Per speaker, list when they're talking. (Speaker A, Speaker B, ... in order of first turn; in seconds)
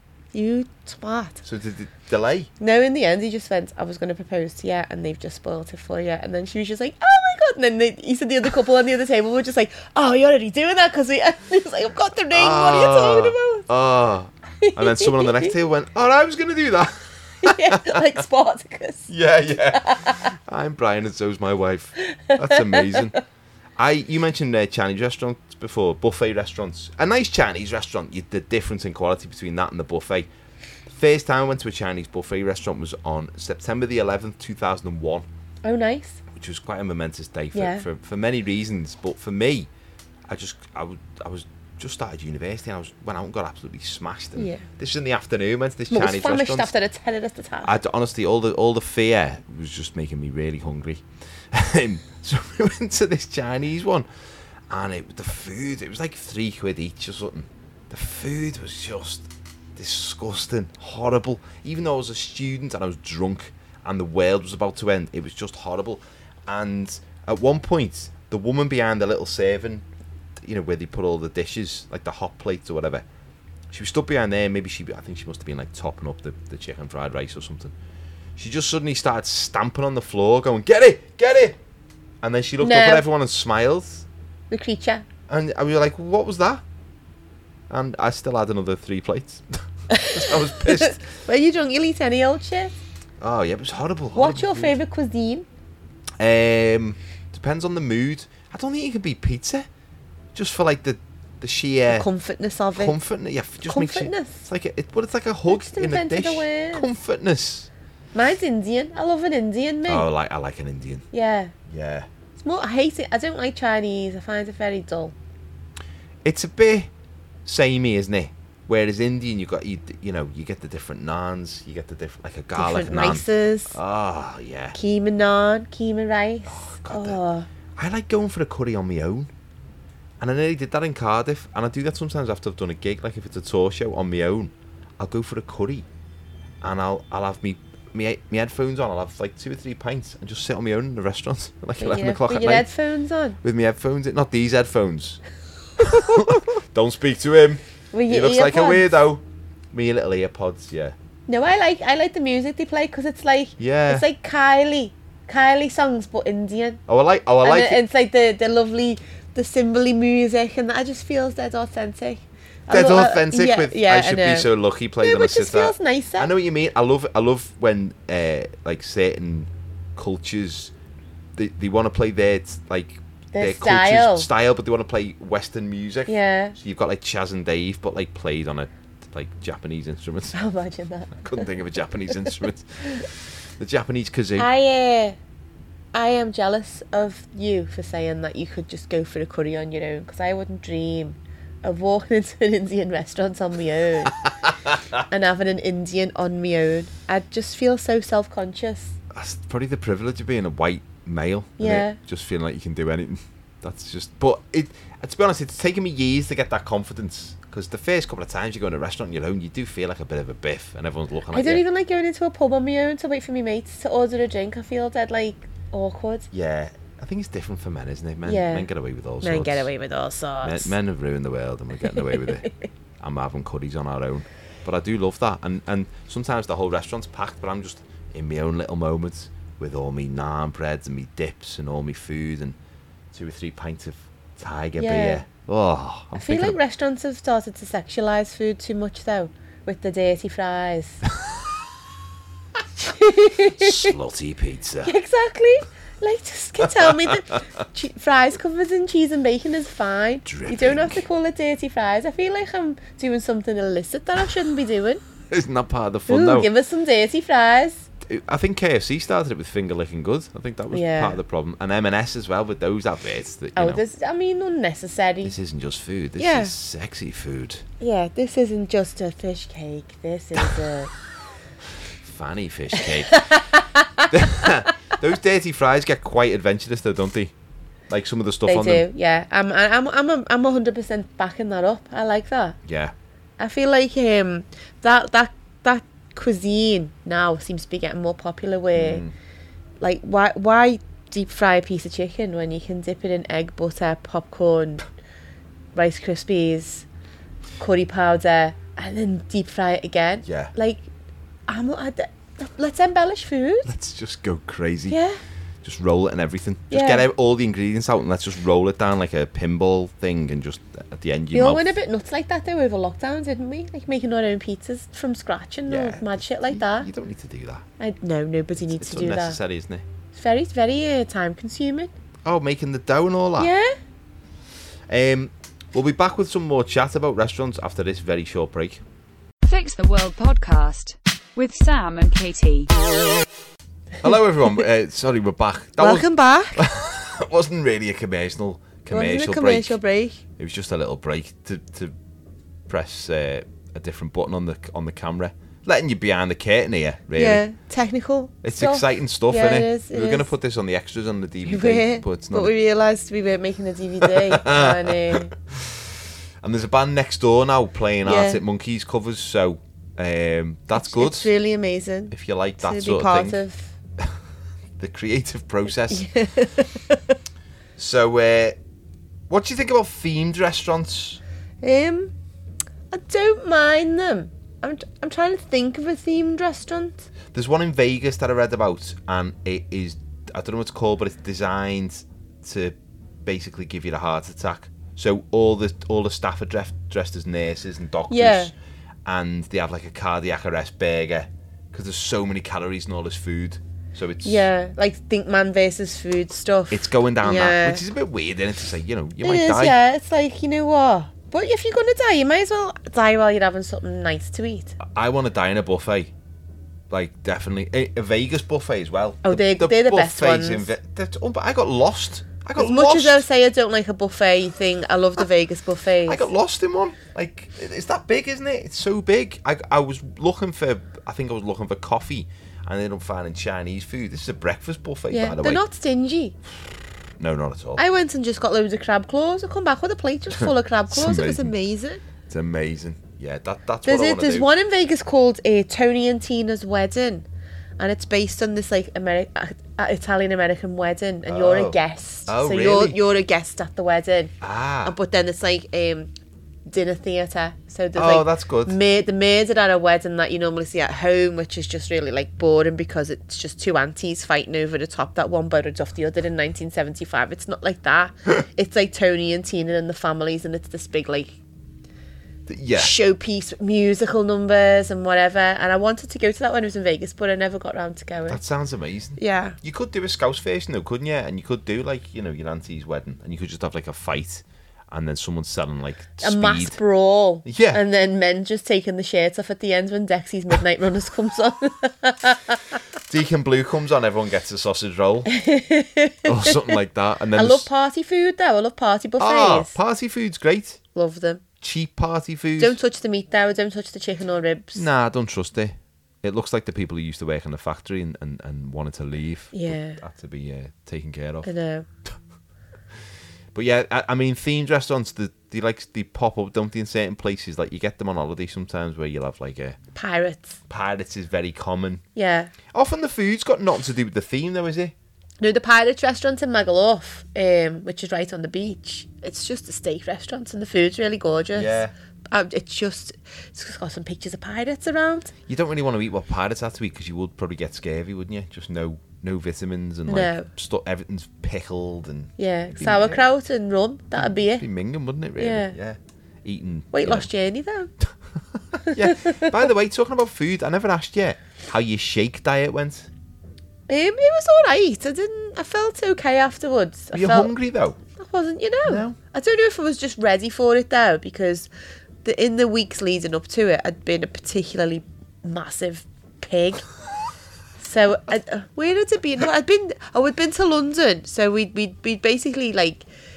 Speaker A: 0.3-1.4, 2.6-13.7, 14.6-15.5, 17.4-19.1, 19.7-20.3, 22.0-23.2, 35.6-36.2, 37.5-37.8, 44.4-44.6, 45.9-47.7, 82.6-83.0, 84.5-85.0, 89.9-92.8, 94.1-95.5, 101.9-102.9, 103.7-104.4, 105.5-106.9, 108.1-110.0, 111.1-111.5, 112.4-115.1, 122.5-123.8, 124.7-127.5, 141.8-143.4, 145.8-146.4, 147.9-149.0, 151.3-156.8, 157.4-164.5, 165.0-166.3, 173.3-174.3, 176.1-176.6, 180.3-181.5, 184.4-185.2, 185.9-194.2, 195.1-199.0, 201.6-202.0, 211.3-216.3, 218.2-218.7, 219.2-220.7, 221.8-222.7, 234.8-235.2, 236.1-241.0, 242.8-243.9, 244.8-255.0, 256.1-257.9, 260.7-261.2, 263.6-265.3, 266.2-266.5, 267.8-270.9, 273.0-274.5, 278.4-282.6, 283.4-289.0, 289.8-294.8, 295.7-296.9, 297.6-300.9, 301.5-303.7, 304.9-305.2, 306.7-307.0, 311.3-316.9, 317.8-319.4, 320.1-321.9, 323.4-323.7, 335.8-336.6, 338.9-340.2, 347.1-350.3, 351.4-355.3, 358.0-358.4, 360.8-363.7, 365.9-367.1, 371.6-372.1, 372.9-377.1, 388.1-388.5, 394.2-397.8, 399.2-404.8, 409.2-410.7, 412.6-416.3, 425.1-426.4, 427.8-432.0, 433.8-437.2, 437.8-444.3, 444.8-446.1, 446.7-461.4, 462.8-468.4, 469.2-469.6, 476.2-482.8, 485.3-486.8, 487.3-489.8, 490.9-491.4, 492.6-494.9, 499.5-500.0, 501.4-501.9, 509.9-510.6, 512.1-512.5, 515.4-525.3, 530.1-530.5, 532.4-534.6, 535.4-535.8, 536.9-537.9, 538.9-539.5, 543.9-547.5, 548.1-551.7, 552.2-556.9, 557.8-563.0
Speaker B: 1.4-2.5, 12.3-18.0, 19.1-23.1, 23.8-30.3, 30.9-35.2, 36.3-39.7, 40.3-46.7, 47.6-54.1, 54.7-69.8, 70.4-73.0, 73.7-77.7, 78.3-81.6, 82.2-84.0, 85.3-86.6, 87.7-91.0, 93.2-94.8, 96.2-99.7, 100.3-102.1, 102.8-107.7, 109.9-111.0, 111.7-112.1, 116.2-116.9, 117.4-124.8, 126.5-127.2, 127.8-129.3, 130.2-135.8, 136.6-142.7, 143.4-145.2, 145.8-150.9, 153.6-154.1, 156.9-157.8, 162.7-170.7, 171.3-180.3, 181.2-184.5, 199.1-211.6, 216.3-219.7, 220.4-232.6, 233.1-236.6, 243.4-244.9, 246.6-247.4, 250.2-251.0, 255.3-256.5, 258.1-263.8, 265.2-267.6, 272.0-273.2, 274.1-277.3, 277.9-278.9, 282.6-282.9, 288.7-289.1, 300.2-300.5, 303.6-305.0, 305.6-311.8, 315.7-317.6, 318.6-319.8, 322.2-323.5, 324.9-328.8, 334.0-339.8, 340.4-341.9, 342.7-347.4, 348.4-352.5, 354.0-361.3, 362.1-363.4, 364.8-366.1, 367.8-368.6, 369.3-371.2, 377.3-388.5, 389.1-394.5, 396.7-399.8, 404.8-406.1, 406.9-413.2, 416.1-425.6, 427.2-427.8, 430.4-431.5, 432.2-434.5, 441.2-443.0, 444.4-444.9, 447.9-448.8, 462.5-462.9, 468.3-476.8, 477.4-477.8, 483.1-485.3, 486.2-487.7, 489.2-490.8, 491.6-492.8, 494.7-501.5, 503.5-509.8, 510.7-512.0, 512.7-514.9, 521.5-521.9, 525.5-533.2, 534.2-537.3, 538.7-543.1, 547.1-548.0, 548.8-549.2
Speaker C: 329.4-332.9